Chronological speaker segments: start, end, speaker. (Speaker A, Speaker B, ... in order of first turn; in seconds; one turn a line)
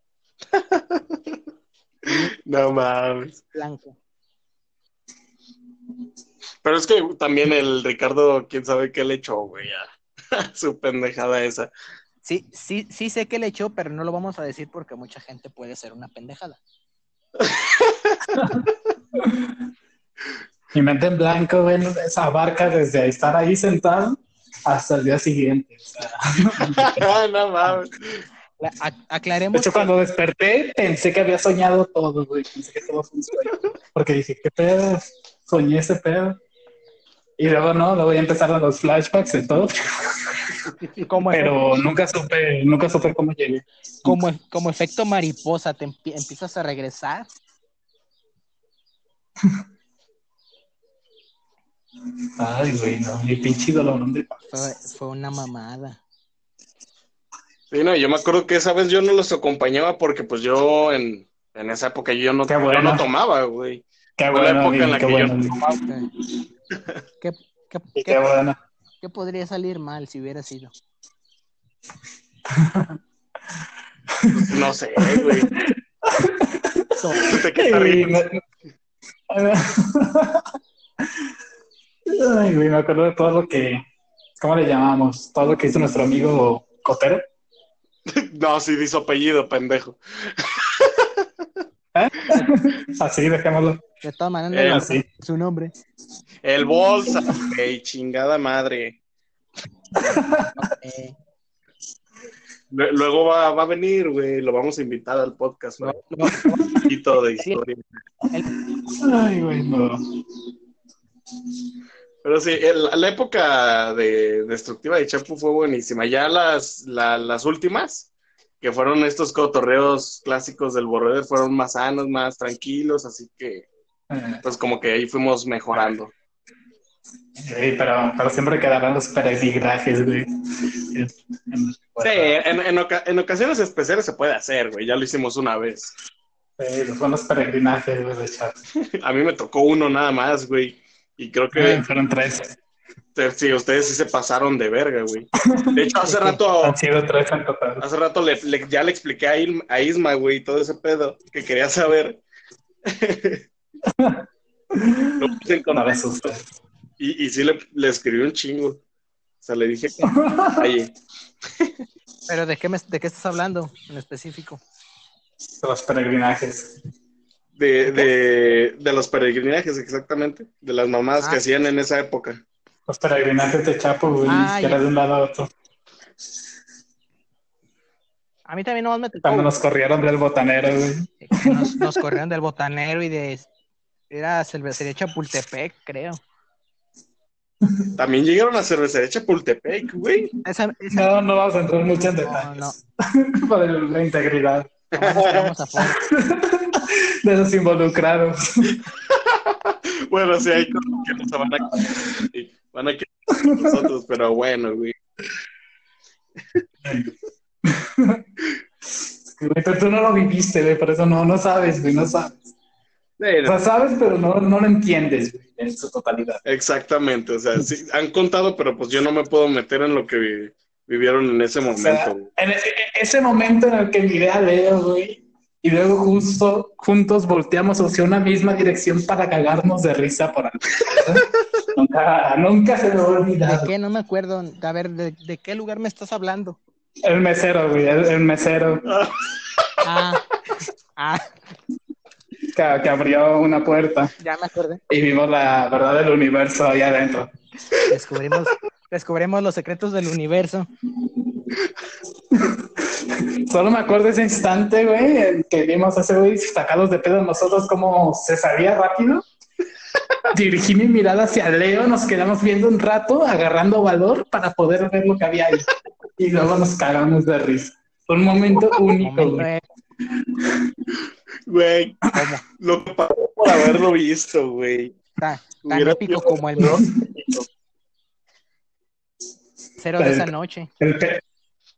Speaker A: 0.5-1.4
Speaker A: 2.1-3.4
Speaker B: 3.5-4.0
Speaker A: 6.6-11.7
Speaker B: 12.2-16.6
Speaker A: 17.4-18.2
Speaker C: 18.4-18.7
Speaker C: 19.2-19.6
Speaker C: 20.7-27.1
Speaker A: 26.7-28.2
Speaker B: 28.6-29.9
Speaker C: 29.5-36.4
Speaker C: 37.4-39.7
Speaker B: 41.0-41.6
Speaker C: 41.3-44.2
Speaker B: 44.0-47.3
Speaker C: 52.4-54.4
Speaker B: 54.5-56.0
Speaker A: 57.7-65.6
Speaker C: 62.5-63.0
Speaker C: 64.2-65.6
Speaker B: 65.5-66.1
Speaker B: 67.2-68.2
Speaker C: 68.0-68.6
Speaker B: 69.0-70.7
Speaker C: 72.5-73.0
Speaker C: 74.2-78.4
Speaker A: 74.3-75.5
Speaker B: 77.0-77.3
Speaker A: 77.2-78.2
Speaker C: 79.3-80.4
Speaker C: 82.1-83.8
Speaker C: 84.4-87.3
Speaker A: 88.1-91.3
Speaker C: 92.0-93.8
Speaker B: 94.0-95.7
Speaker A: 94.5-94.9
Speaker C: 94.7-95.0
Speaker A: 96.4-99.0
Speaker C: 100.0-100.6
Speaker B: 100.0-101.2
Speaker A: 102.7-106.0
Speaker B: 105.8-106.7
Speaker C: 106.3-106.8
Speaker A: 106.8-108.0
Speaker C: 108.9-110.0
Speaker A: 112.2-118.1
Speaker A: 118.6-123.7
Speaker C: 124.1-124.4
Speaker A: 124.4-126.1
Speaker C: 127.4-130.3
Speaker C: 130.9-132.3
Speaker A: 132.0-135.9
Speaker C: 136.6-138.6
Speaker A: 138.9-141.8
Speaker C: 141.5-142.6
Speaker A: 143.2-146.8
Speaker C: 145.5-145.7
Speaker B: 146.1-146.4
Speaker C: 146.6-147.8
Speaker A: 147.8-152.2
Speaker A: 152.8-153.4
Speaker C: 153.9-156.4
Speaker A: 155.2-156.3
Speaker A: 157.0-158.8
Speaker A: 159.4-160.9
Speaker C: 160.1-160.7
Speaker B: 162.3-164.6
Speaker C: 165.6-166.7
Speaker A: 167.6-172.4
Speaker C: 172.9-175.5
Speaker B: 174.3-174.8
Speaker B: 178.5-179.5
Speaker C: 179.2-181.8
Speaker B: 181.2-183.5
Speaker B: 184.1-186.2
Speaker A: 188.0-190.3
Speaker B: 190.4-191.2
Speaker C: 190.9-194.8
Speaker B: 192.0-192.8
Speaker B: 194.9-196.0
Speaker A: 194.9-195.5
Speaker C: 195.8-198.8
Speaker A: 198.9-204.9
Speaker C: 203.4-203.7
Speaker C: 206.8-207.1
Speaker C: 207.7-208.2
Speaker C: 209.3-212.5
Speaker A: 213.2-213.6
Speaker C: 213.4-216.4
Speaker A: 216.5-222.3
Speaker C: 221.7-233.7
Speaker B: 233.4-236.6
Speaker C: 237.0-238.8
Speaker A: 238.9-239.7
Speaker B: 239.8-240.2
Speaker B: 241.0-241.3
Speaker C: 242.6-244.1
Speaker B: 244.2-244.8
Speaker C: 244.9-247.3
Speaker B: 247.9-250.7
Speaker C: 252.3-259.2
Speaker C: 260.3-265.7
Speaker C: 266.2-269.5
Speaker B: 269.0-269.6
Speaker A: 271.5-272.1
Speaker B: 272.1-272.4
Speaker A: 272.6-275.0
Speaker B: 275.2-276.8
Speaker A: 275.6-277.5
Speaker C: 276.6-276.9
Speaker B: 279.8-280.7
Speaker C: 280.0-280.3
Speaker C: 280.8-281.2